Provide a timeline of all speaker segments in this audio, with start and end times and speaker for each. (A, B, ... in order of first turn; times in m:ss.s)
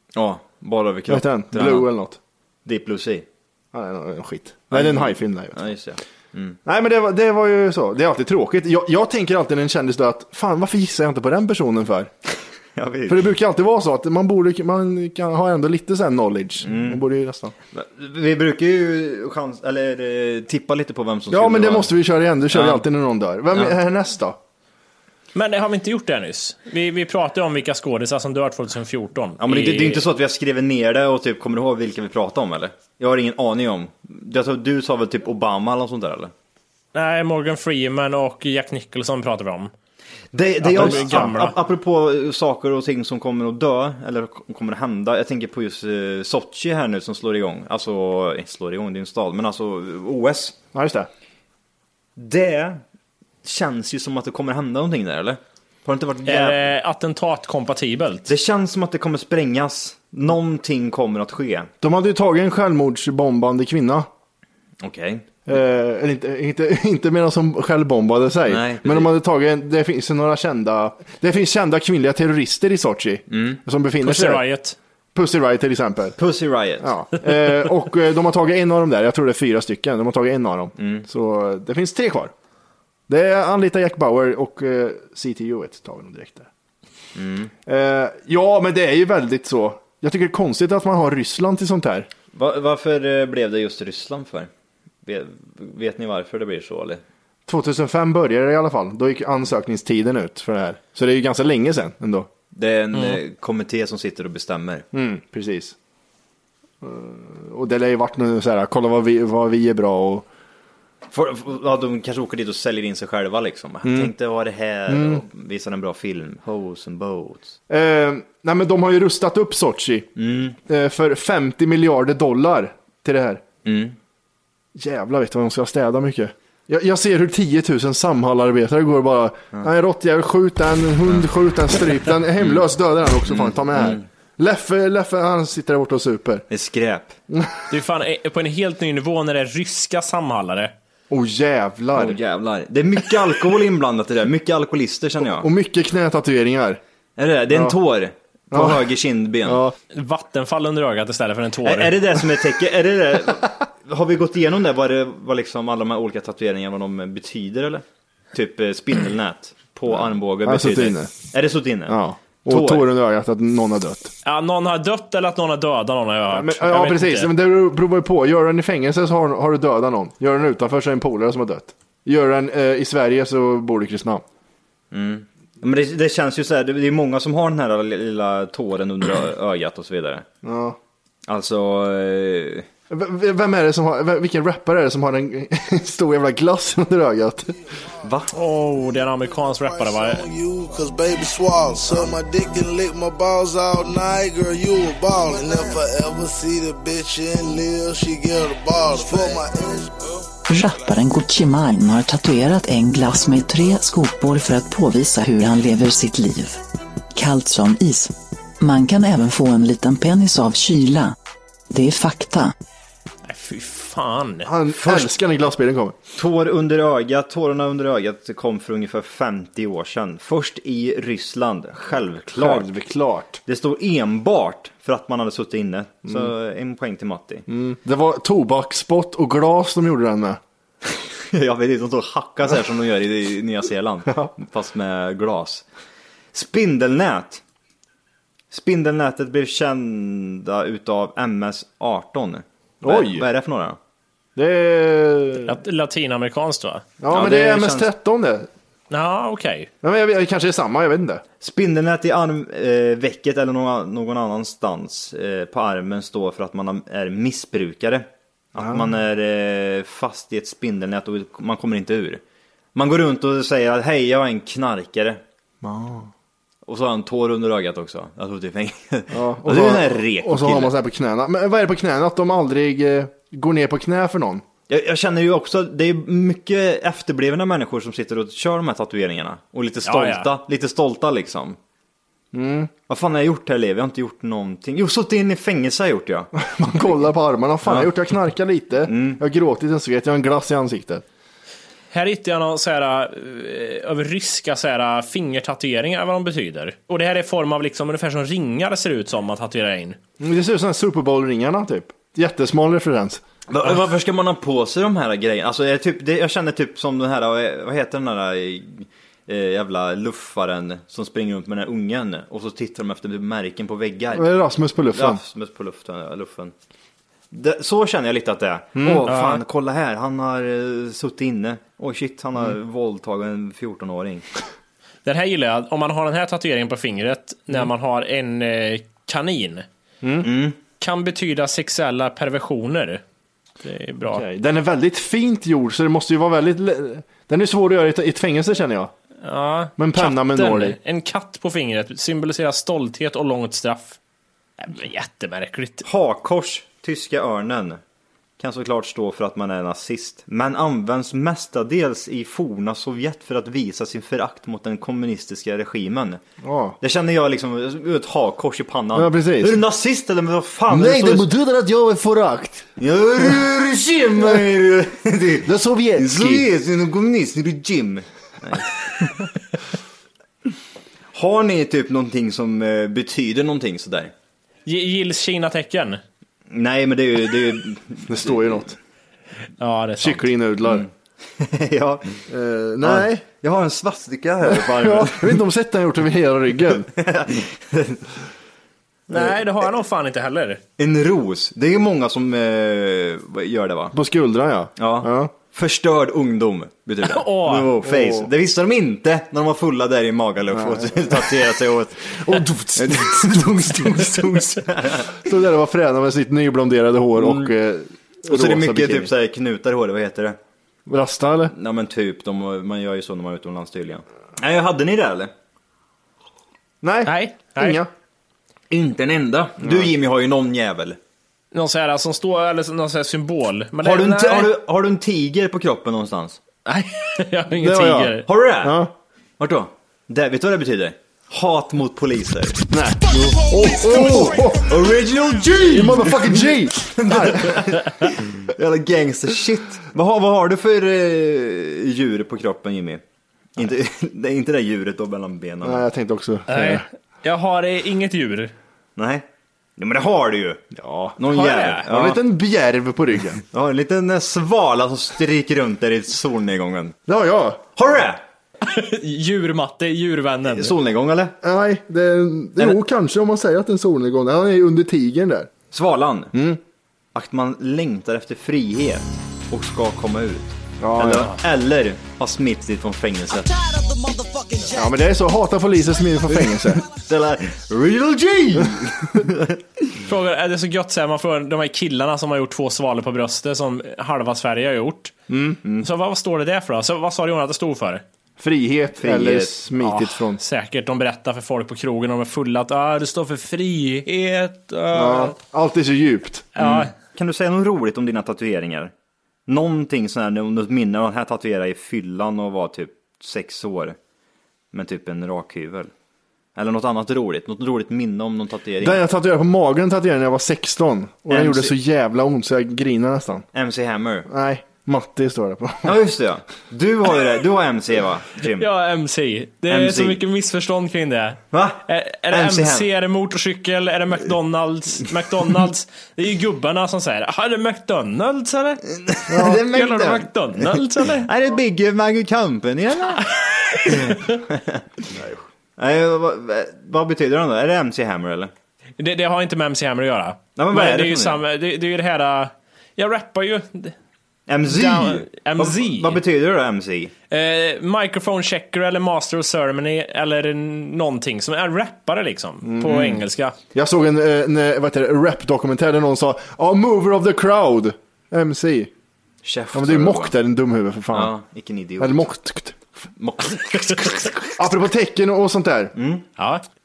0:00.1-0:01.9 A
0:01.1-0:02.2 B
0:02.6-0:03.2 A
0:03.7-0:05.7 B
0:04.7-0:06.6 A
0:06.6-0:12.1 B
0:12.8-0:13.3 A
0:13.1-0:17.5 B
0:16.6-0:17.0 A
0:17.7-0:21.9 A
0:21.3-0:24.4 B
0:22.5-0:22.8 A
0:25.3-0:30.0 C
0:29.4-0:36.3 A
0:36.9-0:39.7 C
0:40.3-0:50.6 A
0:40.6-0:41.5 C
0:40.7-0:41.4 B
0:50.7-0:51.1 B
0:52.2-0:52.8 A
0:53.4-0:56.7 A
0:56.2-0:58.3 C
0:58.3-1:01.7 A
1:01.8-1:04.1 B
1:04.8-1:05.4 A
1:05.5-1:14.4 B
1:08.4-1:09.1 A
1:13.3-1:13.6 A
1:14.0-1:14.8 C
1:15.1-1:16.2 B
1:16.2-1:16.9 A
1:16.8-1:22.3 B
1:20.8-1:21.0 A
1:23.1-1:26.5 B
1:27.2-1:27.5 A
1:27.6-1:32.1 B
1:32.3-1:34.5 A
1:35.0-1:37.0 A
1:37.5-1:42.3 B
1:42.5-1:44.8 A
1:44.9-1:45.7 B
1:46.8-1:50.3 B
1:51.1-1:57.6 A
1:53.8-1:54.1 B
1:54.9-1:55.2 B
1:57.7-2:00.1 B
2:00.2-2:00.6 A
2:00.7-2:03.4 B
2:03.6-2:04.0 A
2:04.8-2:16.4 B
2:12.4-2:12.6 A
2:13.2-2:14.0 A
2:16.5-2:17.1 A
2:17.3-2:17.6 B
2:17.7-2:20.7 C
2:21.1-2:22.2 B
2:22.0-2:25.5 A
2:25.2-2:26.8 B
2:27.2-2:29.6 A
2:27.5-2:27.8 B
2:28.5-2:28.9 B
2:29.4-2:29.8 B
2:29.9-2:31.9 C
2:31.6-2:42.9 A
2:39.9-2:41.3 B
2:41.9-2:44.1 B
2:44.2-2:47.3 C
2:46.3-2:54.2 B
2:54.9-3:00.2 A
3:00.4-3:00.8 B
3:01.3-3:02.7 A
3:02.9-3:07.6 B
3:08.0-3:08.3 A
3:08.3-3:10.3 C
3:09.7-3:20.1 D
3:20.5-3:26.6 E
3:27.1-3:31.1 E
3:31.7-3:32.5 E
3:33.2-3:34.5 C
3:34.4-3:36.0 B
3:34.7-3:35.1 A
3:36.1-3:42.7 A
3:42.3-3:43.4 B
3:43.4-3:47.5 A
3:46.1-3:46.3 B
3:47.5-3:50.4 B
3:50.9-3:55.6 A
3:56.3-3:57.4 A
3:58.5-4:03.8 A
4:02.8-4:03.3 B
4:04.4-4:05.6 B
4:05.4-4:06.8 C
4:07.0-4:08.5 B
4:07.1-4:07.9 A
4:08.9-4:09.7 C
4:09.8-4:11.2 B
4:11.4-4:22.2 A
4:18.6-4:18.9 B
4:22.7-4:25.2 A
4:25.6-4:26.1 B
4:26.6-4:30.7 A
4:29.1-4:34.4 B
4:34.7-4:41.6 A
4:39.8-4:40.3 C
4:42.3-4:42.7 B
4:42.9-4:46.3 A
4:46.4-4:51.0 B
4:47.6-4:47.9 A
4:48.8-4:49.2 A
4:51.9-5:00.0 C
5:00.2-5:03.2 B
5:03.5-5:14.3 A
5:14.1-5:15.2 B
5:14.9-5:16.5 A
5:17.3-5:24.2 A
5:18.8-5:19.1 B
5:19.1-5:19.4 C
5:25.0-5:29.6 C
5:30.0-5:30.3 B
5:30.2-5:30.6 A
5:30.8-5:33.0 C
5:33.6-5:34.2 C
5:34.1-5:38.9 B
5:39.2-5:44.0 C
5:39.8-5:40.8 B
5:44.6-5:45.8 C
5:45.8-5:47.8 A
5:48.4-5:56.2 A
5:56.4-5:56.8 B
5:56.8-6:01.3 A
5:58.9-5:59.6 B
6:00.7-6:02.7 B
6:02.8-6:09.3 A
6:05.4-6:06.4 B
6:11.1-6:14.1 A
6:14.6-6:16.0 C
6:16.5-6:18.6 A
6:18.1-6:18.8 B
6:19.6-6:20.2 C
6:20.0-6:20.8 B
6:20.6-6:22.2 A
6:22.3-6:23.2 B
6:22.8-6:25.4 A
6:24.4-6:26.9 B
6:26.9-6:28.0 A
6:29.1-6:30.6 C
6:30.8-6:33.9 A
6:33.9-6:35.3 B
6:34.8-6:45.1 A
6:37.0-6:37.7 C
6:37.8-6:38.3 B
6:40.5-6:41.3 B
6:42.2-6:44.5 B
6:45.1-6:49.1 B
6:47.2-6:47.5 A
6:48.3-6:50.4 A
6:50.9-6:51.5 B
6:51.5-6:55.3 A
6:56.8-6:57.9 B
6:57.0-6:57.8 C
6:58.7-7:01.0 A
6:59.6-6:59.9 B
7:01.5-7:04.5 C
7:03.8-7:06.4 A
7:06.7-7:08.3 C
7:07.7-7:08.1 B
7:07.7-7:08.8 A
7:08.6-7:08.9 B
7:09.4-7:12.6 A
7:12.7-7:14.8 B
7:13.2-7:23.0 A
7:15.6-7:17.7 B
7:23.6-7:25.8 A
7:25.6-7:26.8 B
7:26.5-7:28.5 C
7:29.0-7:29.2 A
7:29.8-7:30.6 A
7:30.7-7:31.2 B
7:31.2-7:32.2 A
7:31.3-7:31.8 C
7:31.8-7:33.4 B
7:33.5-7:36.9 A
7:37.1-7:37.6 B
7:37.8-7:38.2 A
7:38.6-7:40.7 C
7:40.5-7:41.4 A
7:41.4-7:45.5 B
7:45.7-7:46.3 A
7:46.3-7:46.6 B
7:47.1-7:53.6 A
7:50.8-7:51.3 B
7:54.7-7:56.8 B
7:56.3-7:59.6 A
8:00.0-8:05.1 C
8:05.3-8:05.6 B
8:05.8-8:08.0 C
8:08.4-8:10.4 B
8:09.0-8:09.6 A
8:09.8-8:15.4 C
8:14.9-8:16.5 B
8:16.6-8:16.9 C
8:16.6-8:18.9 A
8:19.5-8:24.0 A
8:24.7-8:25.9 A
8:26.6-8:29.0 A
8:28.8-8:33.4 B
8:31.3-8:31.7 A
8:33.5-8:34.3 A
8:34.3-8:36.0 B
8:35.8-8:38.7 A
8:38.6-8:48.8 C
8:39.7-8:40.2 A
8:41.5-8:42.9 A
8:49.0-8:53.2 A
8:49.3-8:49.6 B
8:49.4-8:51.3 C
8:53.4-8:54.4 C
8:54.0-8:55.2 A
8:55.8-8:58.5 A
8:59.0-9:03.9 C
9:00.6-9:01.4 A
9:04.5-9:07.1 A
9:04.7-9:06.2 C
9:07.3-9:13.5 C
9:12.6-9:13.1 B
9:13.7-9:18.9 B
9:19.4-9:20.3 A
9:19.7-9:21.3 B
9:21.1-9:22.3 A
9:22.0-9:22.8 B
9:23.2-9:24.4 A
9:24.6-9:25.9 B
9:26.0-9:26.2 A
9:26.4-9:26.6 C